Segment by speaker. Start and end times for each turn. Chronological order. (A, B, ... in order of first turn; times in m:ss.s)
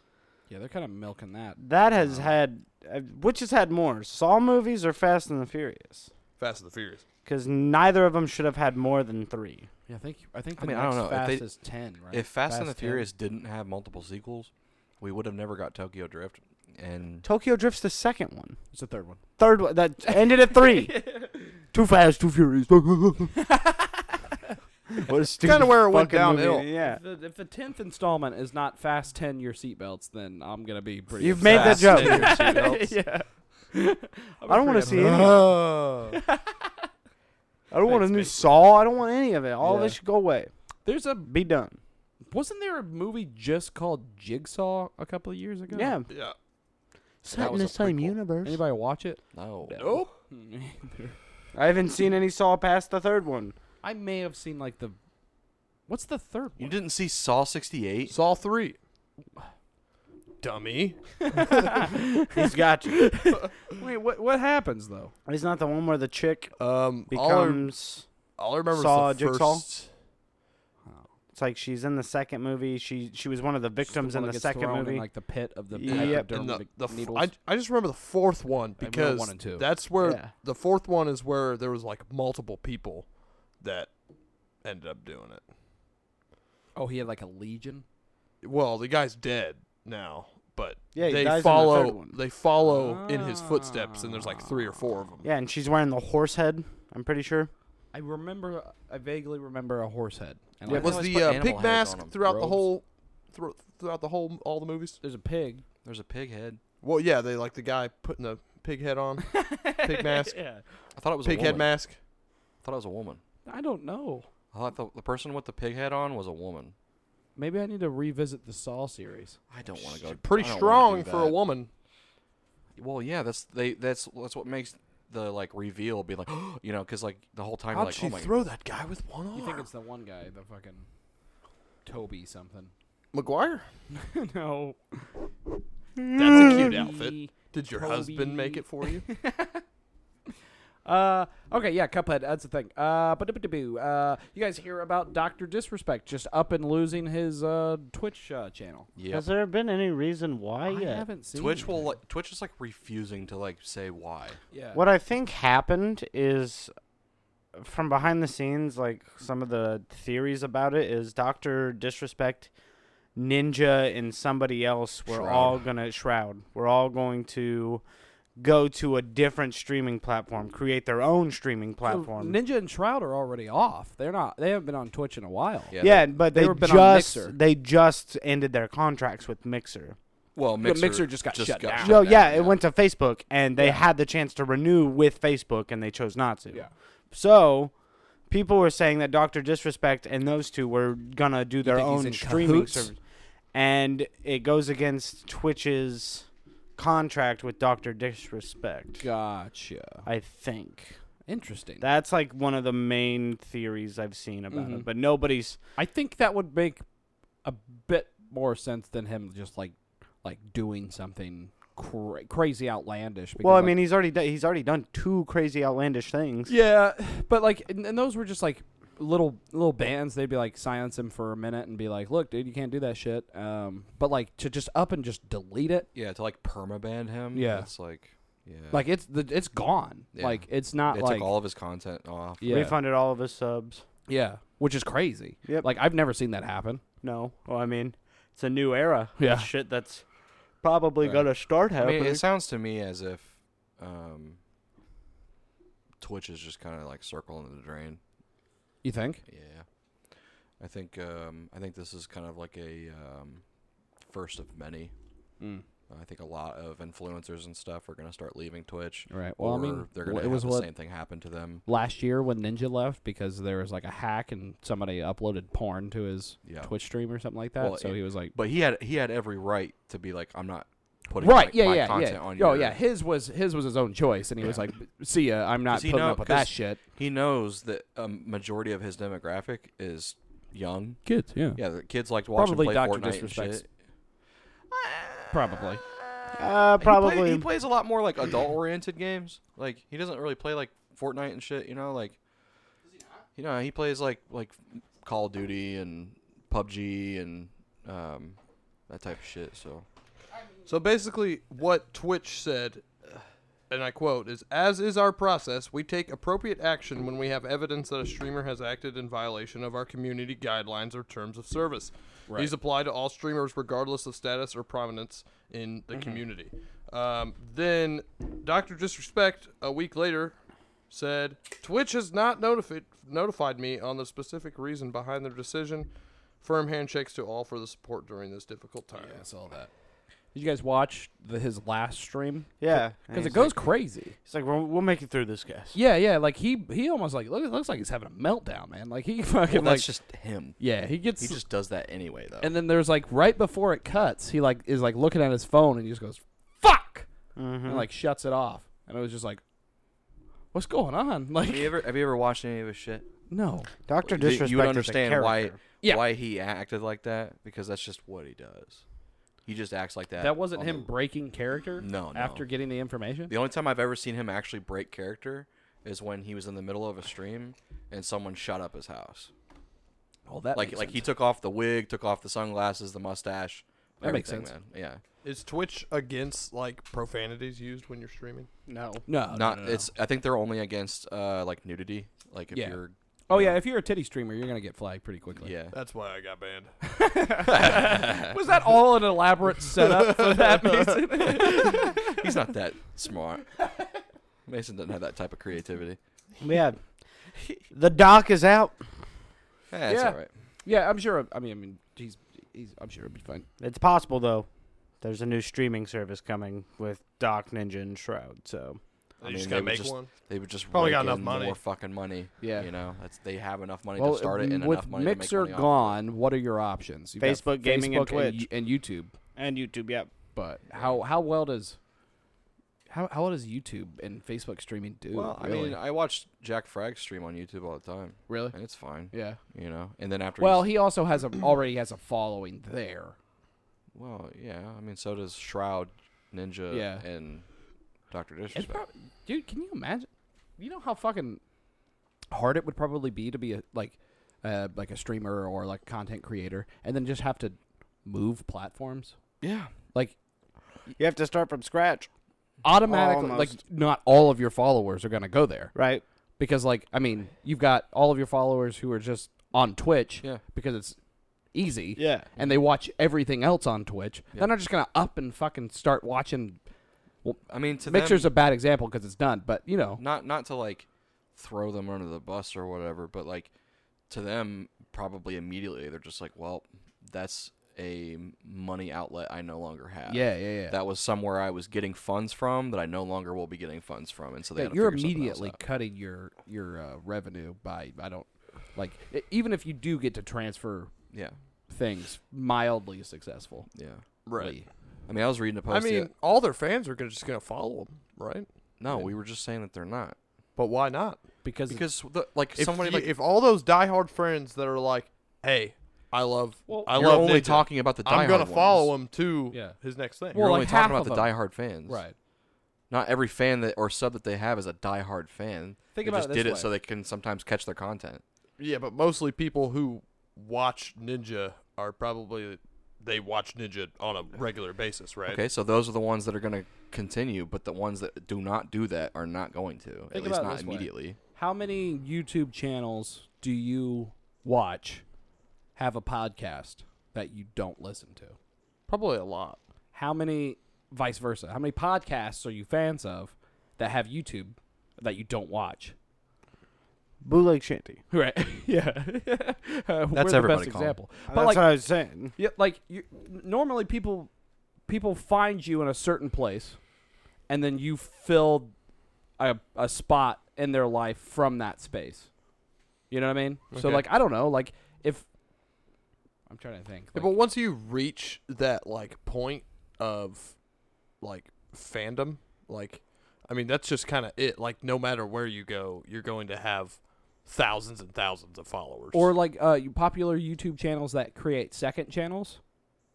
0:00.5-0:02.3 A
0:01.6-0:06.1 B
0:06.4-0:07.0 C
0:07.2-0:09.7 B
0:09.9-0:13.1 A
0:10.6-0:11.4 D
0:12.1-0:17.2 D
0:17.2-0:18.6 B
0:18.7-0:19.2 A
0:19.4-0:21.2 B
0:20.1-0:21.6 A
0:21.7-0:23.3 B
0:23.5-0:23.9 A
0:25.0-0:27.0 B
0:25.4-0:26.6 C
0:26.7-0:35.4 A
0:31.2-0:32.6 B
0:31.4-0:32.7 D
0:31.5-0:32.8 C
0:34.5-0:35.6 B
0:34.9-0:36.2 C
0:36.1-0:36.6 A
0:37.7-0:40.5 B
0:37.8-0:38.5 A
0:39.6-0:40.0 A
0:40.8-0:41.3 A
0:41.2-0:41.8 B
0:42.3-0:46.0 A
0:45.7-0:46.1 B
0:46.1-0:46.4 C
0:47.2-0:48.6 B
0:47.3-0:48.2 D
0:48.4-0:51.2 A
0:49.3-0:50.0 D
0:51.5-0:53.6 B
0:53.8-0:55.0 A
0:55.9-0:56.7 A
0:56.6-0:58.1 D
0:58.1-0:58.8 C
1:00.4-1:01.6 C
1:01.3-1:05.1 A
1:02.3-1:03.1 B
1:05.2-1:06.5 B
1:06.6-1:07.7 C
1:07.1-1:08.0 B
1:08.4-1:09.9 C
1:08.7-1:09.6 B
1:11.3-1:15.1 B
1:13.8-1:17.3 A
1:15.7-1:16.3 B
1:15.9-1:24.0 C
1:18.8-1:19.7 A
1:20.0-1:20.3 B
1:24.6-1:25.4 C
1:26.7-1:27.8 A
1:28.4-1:35.3 C
1:30.9-1:32.2 B
1:32.6-1:34.8 A
1:35.2-1:37.5 B
1:37.9-1:41.0 A
1:40.7-1:42.5 D
1:40.7-1:45.0 C
1:45.0-1:45.6 A
1:45.8-1:46.6 D
1:46.8-1:50.4 C
1:49.3-1:50.4 A
1:51.0-1:51.8 D
1:51.2-1:52.0 C
1:52.6-1:53.2 D
1:53.4-1:54.3 A
1:54.5-1:56.7 D
1:57.4-1:59.4 A
1:59.5-2:01.4 D
1:59.8-2:01.7 C
2:02.8-2:08.4 D
2:07.7-2:09.7 C
2:09.3-2:10.8 A
2:11.8-2:12.7 A
2:13.1-2:13.7 C
2:13.9-2:15.0 A
2:16.0-2:16.5 B
2:16.1-2:19.0 C
2:16.3-2:19.6 A
2:20.8-2:28.9 A
2:29.0-2:29.3 D
2:29.1-2:31.0 B
2:30.7-2:31.9 A
2:31.3-2:34.4 D
2:34.5-2:34.8 A
2:34.7-2:36.7 B
2:37.5-2:42.5 B
2:43.2-2:47.8 B
2:45.1-2:45.6 D
2:48.4-2:52.4 B
2:51.8-2:57.3 A
2:55.7-2:56.1 D
2:55.8-3:00.0 B
3:00.3-3:02.6 D
3:00.6-3:02.0 A
3:01.8-3:07.7 B
3:03.6-3:03.8 A
3:08.3-3:13.0 B
3:11.6-3:12.9 A
3:13.5-3:19.0 B
3:19.0-3:20.0 A
3:20.0-3:21.0 B
3:21.3-3:21.8 A
3:21.8-3:25.6 B
3:24.5-3:24.9 A
3:25.8-3:26.8 A
3:27.4-3:33.8 A
3:33.4-3:36.5 B
3:36.5-3:45.9 A
3:45.9-3:48.8 D
3:47.3-3:47.7 A
3:48.7-3:51.3 A
3:50.1-3:52.6 D
3:52.4-3:52.7 A
3:52.5-3:53.8 B
3:54.1-3:56.8 A
3:57.0-4:00.0 B
3:59.2-3:59.5 A
4:00.6-4:02.2 B
4:01.7-4:04.4 D
4:06.0-4:08.0 D
4:08.8-4:09.2 A
4:09.2-4:09.6 D
4:10.6-4:13.4 D
4:14.0-4:14.9 D
4:15.4-4:15.6 A
4:15.9-4:21.6 D
4:19.1-4:20.7 A
4:21.7-4:28.3 A
4:26.4-4:26.7 D
4:27.6-4:32.8 D
4:31.2-4:36.8 A
4:35.7-4:43.7 D
4:41.0-4:41.6 A
4:42.3-4:43.6 A
4:44.7-4:52.2 D
4:45.3-4:45.8 A
4:46.3-4:47.5 B
4:53.4-4:59.8 D
5:00.6-5:02.8 C
5:03.7-5:20.4 C
5:20.9-5:29.2 C
5:28.9-5:29.7 A
5:30.3-5:34.2 A
5:32.6-5:33.6 B
5:34.2-5:35.8 B
5:35.7-5:39.9 A
5:39.5-5:40.6 D
5:40.6-5:41.4 A
5:41.2-5:42.5 D
5:42.4-5:47.1 A
5:47.4-5:47.9 B
5:47.6-5:49.4 A
5:50.5-5:51.8 A
5:51.4-5:53.0 D
5:53.3-5:53.7 A
5:53.9-5:55.6 B
5:54.0-5:58.8 D
5:59.4-6:00.9 D
6:00.2-6:03.3 A
6:01.8-6:02.4 D
6:03.3-6:09.3 D
6:10.3-6:11.0 A
6:10.5-6:15.0 D
6:14.0-6:14.5 A
6:15.2-6:18.5 C
6:18.7-6:19.0 B
6:19.1-6:19.9 A
6:19.3-6:23.6 D
6:22.5-6:25.5 A
6:25.4-6:25.8 D
6:25.7-6:26.7 C
6:26.8-6:32.2 A
6:27.4-6:28.4 D
6:29.8-6:30.8 C
6:31.2-6:33.6 D
6:34.4-6:36.0 D
6:36.4-6:36.8 B
6:37.7-6:38.8 B
6:39.7-6:40.3 D
6:39.9-6:43.5 A
6:43.6-6:44.5 B
6:45.0-6:48.8 B
6:49.2-6:50.1 C
6:49.2-6:56.0 D
6:50.7-6:51.6 C
6:52.4-6:52.7 A
6:54.0-6:59.1 A
6:57.2-6:58.5 B
6:59.4-7:00.1 B
7:00.3-7:01.8 A
7:02.9-7:05.8 A
7:05.1-7:10.7 D
7:08.3-7:08.6 A
7:09.1-7:09.4 A
7:10.4-7:13.2 A
7:13.9-7:17.4 D
7:16.7-7:17.0 A
7:18.1-7:18.8 D
7:18.5-7:21.4 A
7:22.3-7:29.2 A
7:29.4-7:29.7 D
7:31.0-7:32.1 B
7:32.6-7:35.7 A
7:32.8-7:33.6 B
7:35.7-7:36.0 B
7:36.4-7:41.0 A
7:41.5-7:46.6 A
7:42.0-7:42.3 B
7:47.2-7:50.0 A
7:47.5-7:48.3 D
7:50.0-7:53.5 D
7:54.1-8:05.6 D
8:00.1-8:00.8 A
8:04.6-8:10.9 A
8:11.7-8:13.7 A
8:13.7-8:14.0 D
8:14.2-8:14.6 C
8:14.4-8:14.7 A
8:15.1-8:16.1 D
8:15.7-8:18.5 C
8:18.8-8:20.2 D
8:20.6-8:21.2 C
8:21.4-8:21.8 A
8:21.7-8:23.1 D
8:22.6-8:30.4 C
8:26.7-8:26.9 A
8:26.9-8:28.9 D
8:30.3-8:32.1 A
8:30.3-8:32.0 D
8:32.9-8:38.2 D
8:35.9-8:36.7 A
8:38.6-8:45.4 C
8:45.3-8:51.2 D
8:50.1-8:55.0 A
8:55.8-8:58.4 A
8:58.9-8:59.6 C
8:59.9-9:05.9 A
9:07.2-9:08.0 B
9:08.1-9:11.7 A
9:10.1-9:11.0 D
9:11.3-9:12.3 B
9:12.4-9:14.3 A
9:14.8-9:16.8 A
9:17.5-9:18.7 A
9:19.4-9:22.3 A
9:23.1-9:25.2 A
9:23.7-9:24.1 C
9:26.5-9:27.4 A
9:27.1-9:30.6 C
9:31.2-9:39.3 C
9:39.1-9:42.6 A